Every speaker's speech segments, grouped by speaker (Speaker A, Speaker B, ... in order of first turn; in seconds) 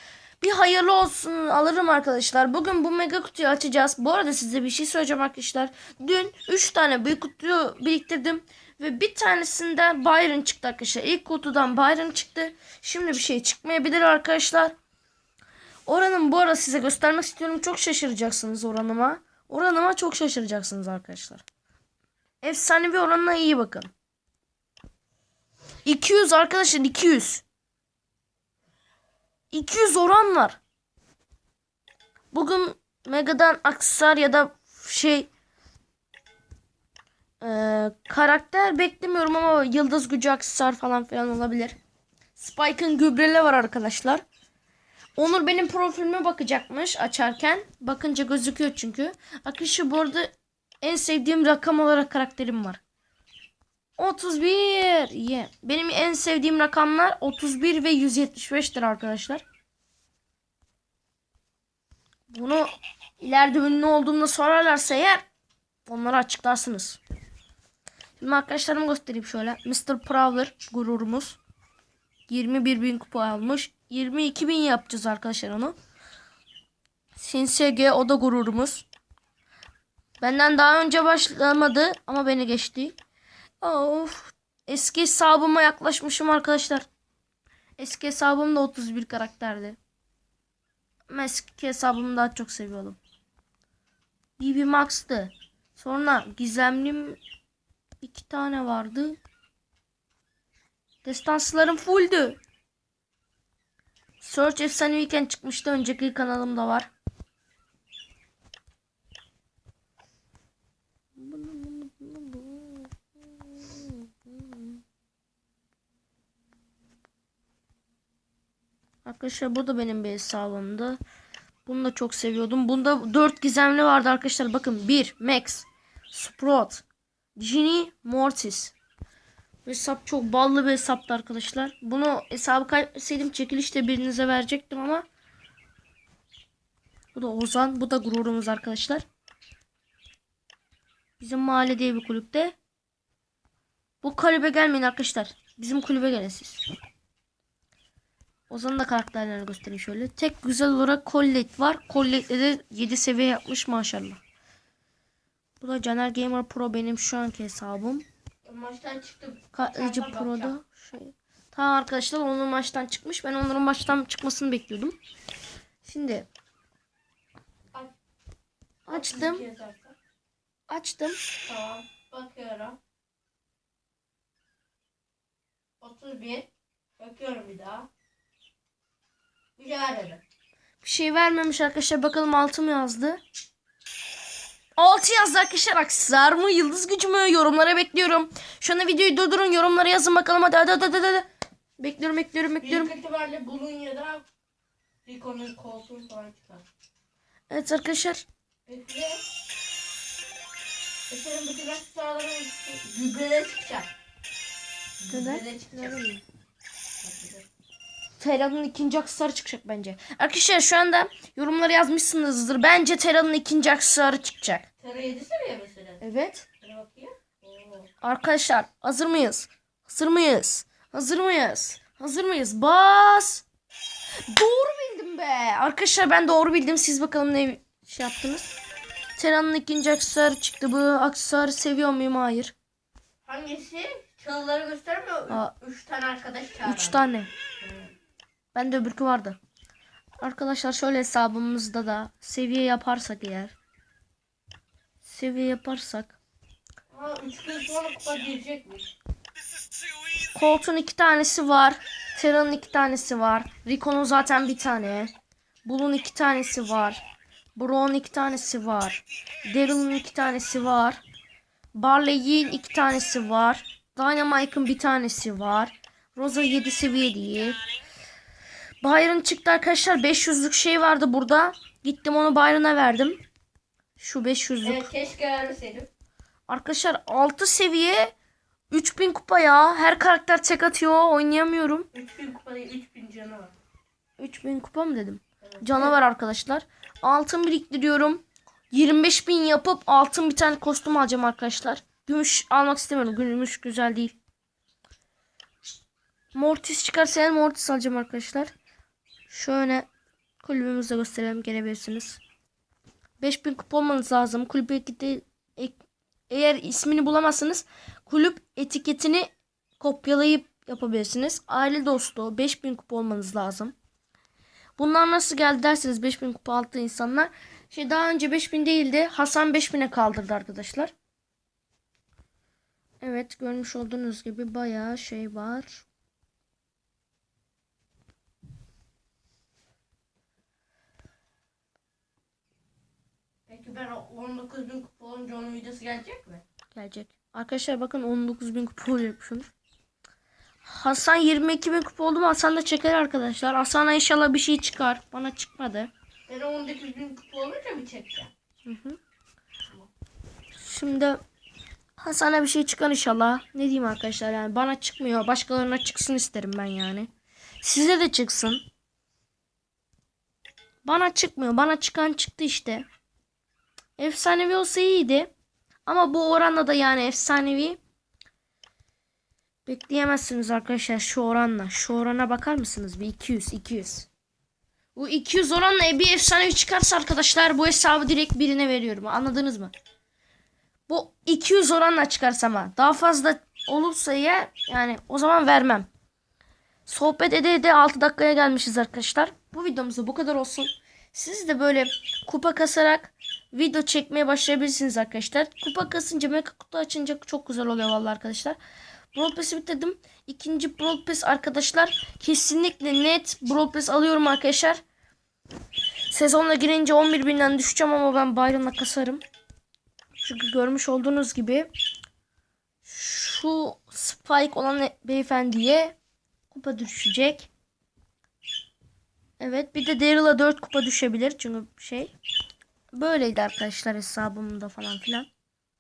Speaker A: 0.4-14.8, 15.9-21.4, 22.4-23.9, 25.9-27.4, 29.5-30.6, 32.3-35.3, 37.4-41.8, 42.4-44.2, 45.2-52.8, 54.0-59.4, 62.3-62.7, 63.2-65.2, 65.9-67.0, 68.2-71.4, 72.3-75.8, 77.2-78.9, 80.2-83.0, 83.6-86.9, 87.8-89.8, 91.1-93.0, 94.4-97.2, 98.0-99.2, 101.0-102.4, 104.2-106.9, 111.2-112.9, 113.5-114.7, 119.0-121.0, 121.7-126.8, 127.4-128.7, 129.7-135.1, 137.2-139.1, 141.2-142.6, 144.0-146.6, 148.5-154.2, 155.6-158.1, 159.5-164.9, 165.8-166.3, 168.9-169.5, 170.7-171.2, 180.8-183.2, 184.8-191.3, 191.8-192.9, 197.5-198.2, 205.1-206.2, 208.2-214.7, 216.0-216.5, 218.0-223.4, 224.3-228.5, 229.2-232.6, 236.7-237.3, 238.5-239.4, 240.2-243.6, 245.0-246.2, 250.3-255.1, 255.7-257.0, 257.6-261.0, 261.7-267.6, 268.8-273.2, 274.0-274.9, 276.5-278.1, 278.7-281.9, 284.2-294.2, 296.3-298.5, 299.3-299.9, 300.4-302.2, 303.2-305.8, 306.3-309.3, 309.8-313.7, 314.8-320.9, 323.0-325.9, 336.7-339.5, 340.6-345.9, 348.7-349.0, 350.6-351.2, 352.0-357.1, 357.6-358.6, 360.8-362.9, 364.0-365.3, 365.9-367.8, 369.6-374.1, 374.9-379.7, 380.9-385.9, 386.9-398.6, 399.1-404.8, 406.1-409.2, 410.2-411.7, 412.8-416.0, 416.5-417.5, 419.4-422.1, 422.9-425.3
Speaker B: 158.4-160.5, 168.9-169.9, 171.4-172.8, 175.8-177.9, 179.6-180.2, 192.6-194.2, 195.1-196.7, 198.7-199.2, 201.1-203.9, 205.0-206.0, 207.0-207.5, 214.8-216.0, 216.6-217.9, 233.2-237.0, 237.6-237.9, 246.9-248.9, 274.6-275.9, 281.9-283.5, 285.4-286.0, 333.5-336.4, 346.3-348.3